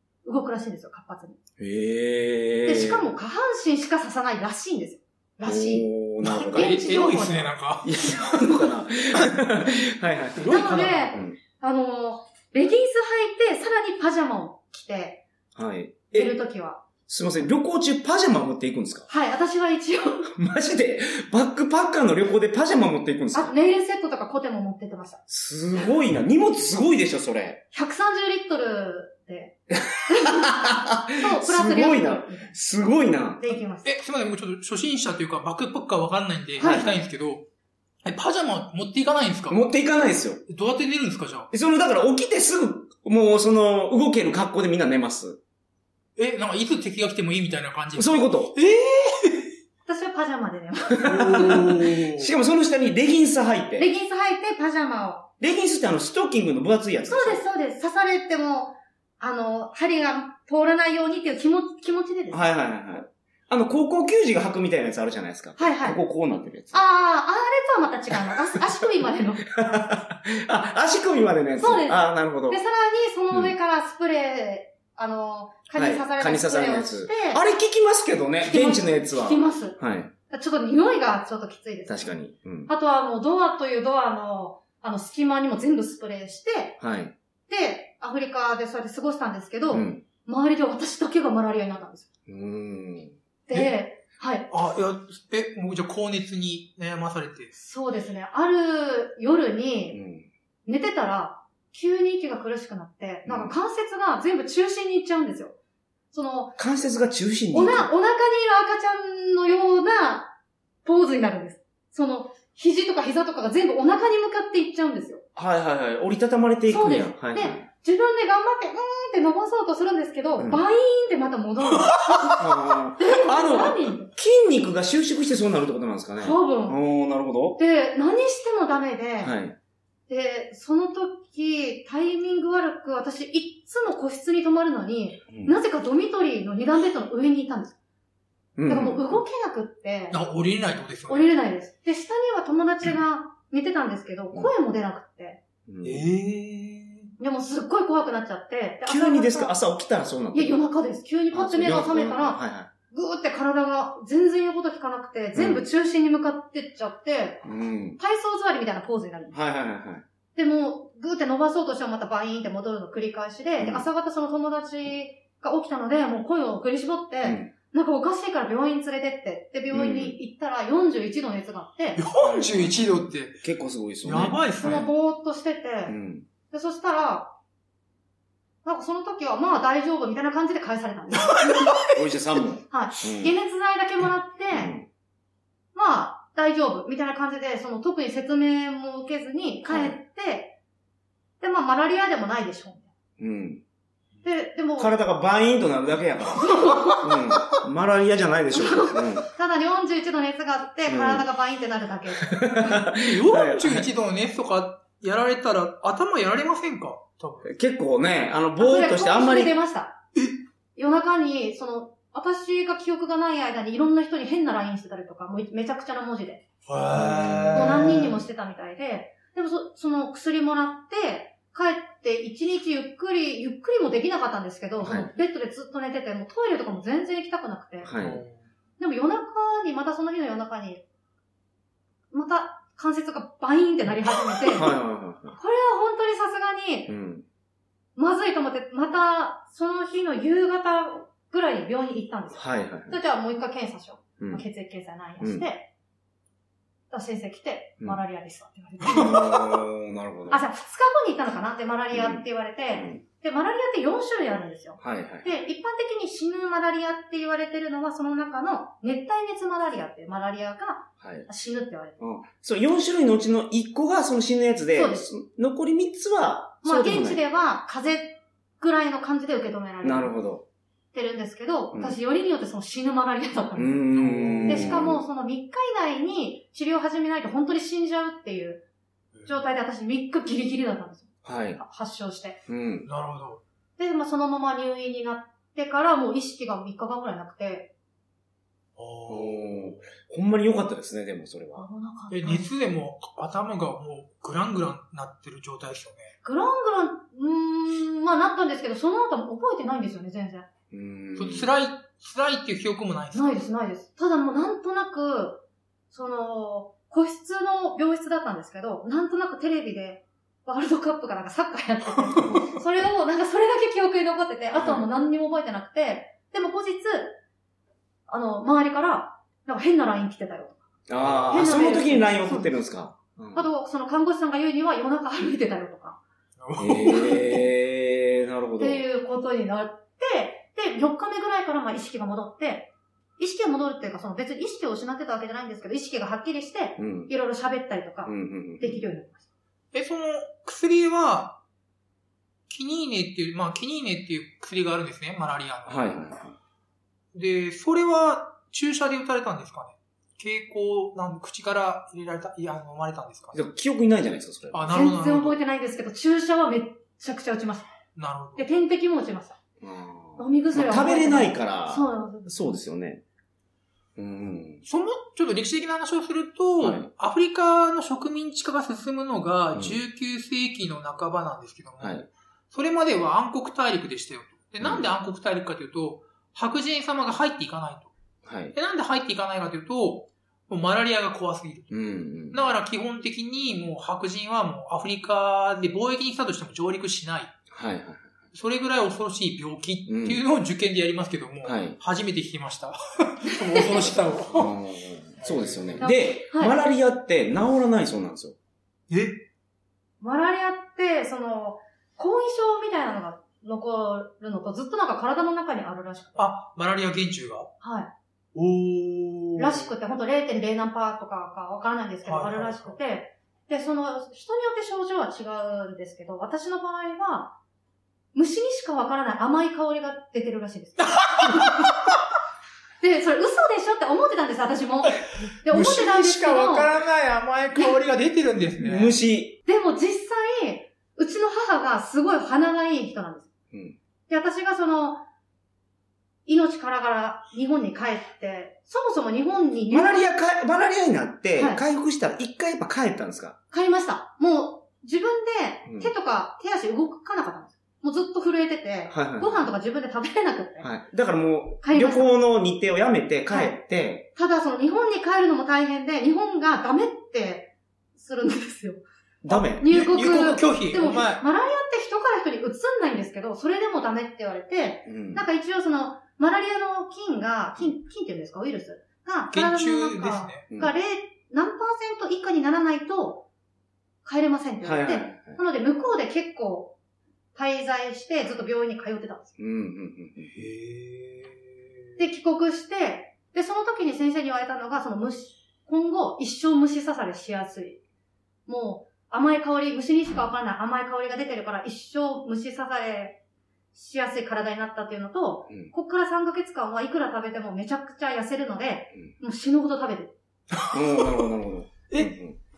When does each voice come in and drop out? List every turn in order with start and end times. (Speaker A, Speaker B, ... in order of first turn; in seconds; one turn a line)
Speaker A: 0.2-1.4
Speaker B: 1.6-3.1
Speaker A: 2.6-5.9
Speaker B: 5.4-6.9
Speaker C: 6.2-7.9
Speaker A: 6.5-7.5
Speaker B: 7.8-10.5
Speaker C: 10.4-11.2
Speaker A: 10.4-15.2
Speaker B: 11.1-11.4
Speaker B: 15.6-16.4
Speaker A: 16.1-16.8
Speaker B: 17.1-19.1
Speaker A: 19.1-20.3
Speaker B: 20.4-23.5
Speaker A: 23.4-25.2
Speaker B: 25.3-27.6
Speaker A: 27.7-32.5
Speaker B: 29.7-33.5
Speaker A: 33.4-33.9
Speaker C: 33.8-37.5
Speaker A: 36.6-36.9
Speaker B: 36.6-37.0
Speaker C: 38.0-39.6
Speaker B: 39.5-40.4
Speaker C: 40.5-41.5
Speaker B: 41.5-45.4
Speaker C: 46.2-49.5
Speaker B: 48.0-48.6
Speaker A: 49.9-51.1
Speaker B: 51.0-53.9
Speaker C: 51.0-52.3
Speaker A: 53.8-55.3
Speaker B: 55.4-57.4
Speaker A: 57.1-62.5
Speaker B: 62.3-66.8
Speaker A: 65.6-66.0
Speaker A: 66.7-69.5
Speaker B: 69.5-72.6
Speaker A: 71.6-77.4
Speaker B: 75.8-80.1
Speaker A: 78.4-79.8
Speaker A: 80.3-82.1
Speaker B: 81.9-82.7
Speaker A: 82.7-86.8
Speaker B: 86.8-87.2
Speaker A: 87.5-92.1
Speaker B: 89.7-90.0
Speaker B: 92.3-93.2
Speaker A: 93.5-94.5
Speaker C: 93.5-93.8
Speaker C: 94.5-97.5
Speaker A: 97.5-100.0
Speaker B: 99.9-100.3
Speaker A: 100.7-105.5
Speaker B: 103.2-103.5
Speaker A: 106.1-106.6
Speaker B: 106.6-107.9
Speaker A: 107.5-110.3
Speaker A: 110.8-115.2
Speaker B: 115.4-117.7
Speaker A: 116.7-124.1
Speaker B: 122.3-127.6
Speaker A: 126.2-126.8
Speaker A: 127.6-129.4
Speaker B: 129.2-129.6
Speaker A: 130.1-137.8
Speaker B: 135.3-135.6
Speaker B: 138.6-139.2
Speaker A: 138.7-140.2
Speaker C: 140.1-141.3
Speaker A: 141.1-145.4
Speaker B: 145.7-146.0
Speaker C: 145.8-147.1
Speaker A: 147.2-149.6
Speaker B: 148.9-150.6
Speaker A: 150.3-157.4
Speaker B: 151.3-152.7
Speaker B: 155.3-155.6
Speaker B: 157.4-158.0
Speaker A: 158.0-159.4
Speaker B: 159.3-160.0
Speaker A: 160.3-172.0
Speaker B: 163.6-163.8
Speaker B: 167.2-167.5
Speaker B: 169.7-170.2
Speaker C: 172.0-173.4
Speaker B: 172.2-174.9
Speaker C: 174.0-174.8
Speaker A: 174.6-176.0
Speaker B: 175.9-176.3
Speaker A: 176.5-177.3
Speaker A: 178.7-181.8
Speaker C: 181.1-182.0
Speaker B: 181.9-183.3
Speaker A: 182.7-184.8
Speaker B: 184.5-184.9
Speaker A: 185.8-190.6
Speaker B: 189.7-190.0
Speaker A: 191.4-192.9
Speaker B: 193.2-193.6
Speaker A: 194.2-195.0
Speaker B: 194.8-199.3
Speaker A: 196.3-197.2
Speaker A: 198.5-202.9
Speaker B: 200.9-201.3
Speaker B: 202.2-203.8
Speaker C: 202.9-207.5
Speaker B: 207.4-209.5
Speaker A: 208.6-210.0
Speaker A: 210.8-216.4
Speaker C: 216.7-218.2
Speaker B: 216.9-217.8
Speaker A: 217.5-228.0
Speaker B: 224.8-225.1
Speaker B: 227.8-228.2
Speaker C: 227.9-228.4
Speaker A: 228.8-230.8
Speaker A: 232.1-234.7
Speaker B: 234.5-235.4
Speaker A: 235.4-236.9
Speaker B: 236.9-237.2
Speaker A: 238.0-245.7
Speaker B: 242.3-243.0
Speaker B: 245.2-245.5
Speaker A: 246.9-249.7
Speaker B: 248.8-250.4
Speaker A: 250.3-262.0
Speaker B: 251.9-253.0
Speaker B: 254.8-255.3
Speaker B: 261.0-261.3
Speaker B: 262.0-267.2
Speaker A: 264.7-265.1
Speaker A: 266.6-270.1
Speaker B: 269.8-270.4
Speaker A: 270.9-278.6
Speaker B: 271.7-272.0
Speaker B: 273.6-275.0
Speaker C: 273.9-274.9
Speaker C: 279.1-279.4
Speaker A: 279.3-282.4
Speaker B: 281.2-281.6
Speaker B: 282.5-282.9
Speaker C: 282.9-283.4
Speaker A: 283.8-287.7
Speaker C: 288.8-289.7
Speaker B: 289.1-291.7
Speaker A: 291.6-292.5
Speaker C: 292.1-296.1
Speaker A: 296.2-300.5
Speaker B: 300.7-301.5
Speaker C: 301.2-303.5
Speaker A: 303.1-317.2
Speaker B: 312.2-312.6
Speaker B: 314.5-314.9
Speaker A: 318.1-320.6
Speaker B: 320.9-323.5
Speaker C: 321.0-321.6
Speaker A: 321.3-322.6
Speaker A: 323.3-326.0
Speaker C: 326.4-327.5
Speaker B: 326.6-328.8
Speaker A: 328.6-339.2
Speaker B: 336.8-337.1
Speaker B: 338.1-338.8
Speaker C: 339.7-341.4
Speaker C: 342.5-345.9
Speaker B: 345.7-346.4
Speaker C: 347.1-353.4
Speaker B: 353.3-354.8
Speaker C: 354.5-355.4
Speaker A: 354.7-357.7
Speaker C: 358.0-358.5
Speaker A: 358.4-359.4
Speaker B: 359.6-363.0
Speaker A: 360.2-362.3
Speaker B: 364.0-364.6
Speaker C: 364.6-377.9
Speaker B: 366.6-366.9
Speaker B: 371.8-372.1
Speaker B: 374.6-374.9
Speaker B: 378.2-378.6
Speaker C: 378.5-381.8
Speaker B: 381.7-382.5
Speaker C: 382.3-387.4
Speaker B: 387.5-388.1
Speaker C: 388.3-394.6
Speaker B: 389.9-390.2
Speaker B: 391.4-391.8
Speaker A: 393.3-393.9
Speaker B: 394.2-398.4
Speaker C: 395.2-395.9
Speaker A: 395.8-396.6
Speaker C: 398.9-399.2
Speaker A: 400.0-406.3
Speaker C: 406.2-407.5
Speaker A: 407.6-407.9
Speaker C: 408.4-409.7
Speaker A: 409.7-417.4
Speaker C: 412.1-412.8
Speaker A: 418.1-421.7
Speaker C: 420.8-421.8
Speaker A: 422.8-426.7
Speaker C: 425.4-429.0
Speaker B: 428.6-429.4
Speaker A: 429.5-433.3
Speaker B: 433.5-433.8
Speaker A: 434.1-435.0
Speaker A: 436.3-440.1
Speaker B: 439.7-443.4
Speaker A: 441.4-441.6
Speaker A: 443.5-450.7
Speaker B: 445.7-445.9
Speaker B: 448.9-449.5
Speaker B: 450.6-454.1
Speaker A: 451.6-452.1
Speaker A: 453.3-453.6
Speaker A: 454.2-473.3
Speaker B: 459.2-459.7
Speaker C: 459.7-461.2
Speaker B: 464.9-465.3
Speaker C: 469.3-470.5
Speaker A: 474.0-476.8
Speaker B: 474.6-475.4
Speaker A: 477.4-479.4
Speaker B: 479.4-480.3
Speaker C: 480.3-481.6
Speaker A: 482.0-487.8
Speaker A: 488.5-493.2
Speaker A: 493.7-500.1
Speaker C: 500.6-501.2
Speaker B: 500.7-502.4